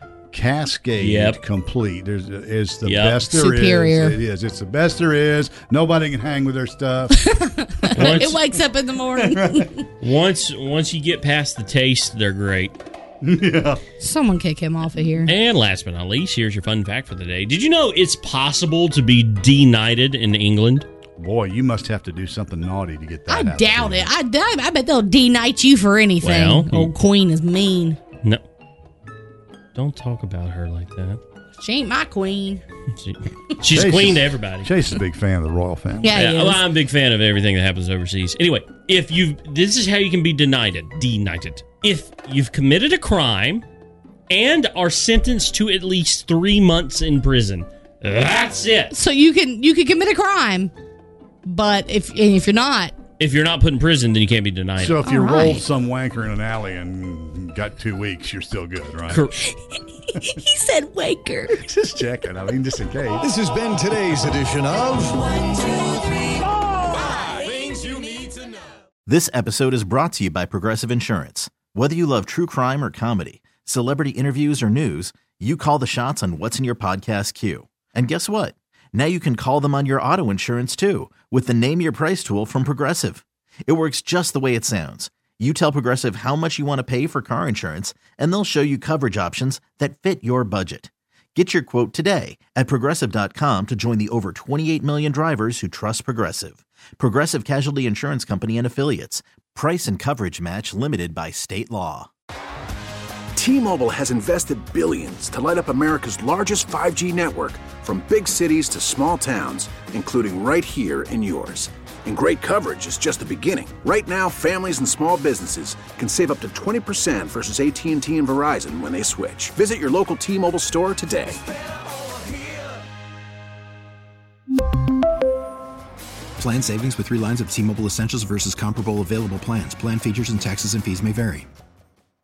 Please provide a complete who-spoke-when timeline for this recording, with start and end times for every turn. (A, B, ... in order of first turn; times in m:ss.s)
0:00.3-0:08.4 A
0:01.0-0:01.4 B
0:02.8-0:03.2 B
0:03.3-0:04.2 C
0:07.8-0:09.8 C
0:08.0-0:08.4 B
0:09.1-0:09.7 A
0:10.0-0:12.7 B
0:13.2-0:13.8 A
0:14.0-0:15.3 C
0:15.2-0:20.9 B
0:21.2-0:24.1 A
0:23.3-0:28.0 C
0:26.2-0:26.9 B
0:29.7-0:31.2 B
0:31.6-0:32.6 C
0:33.0-0:34.7 B
0:33.7-0:36.1 A
0:36.0-0:36.6 C
0:36.1-0:43.6 B
0:44.3-0:48.9 B
0:48.9-0:50.7 C
0:51.4-0:52.9 C
0:53.2-0:55.0 B
0:54.8-0:59.3 A
0:55.0-0:55.6 C
0:59.5-1:01.6 C
1:01.5-1:03.3 A
1:03.2-1:05.3 D
1:09.1-1:42.1 E
1:43.4-2:01.4 F
2:06.4-2:11.5 G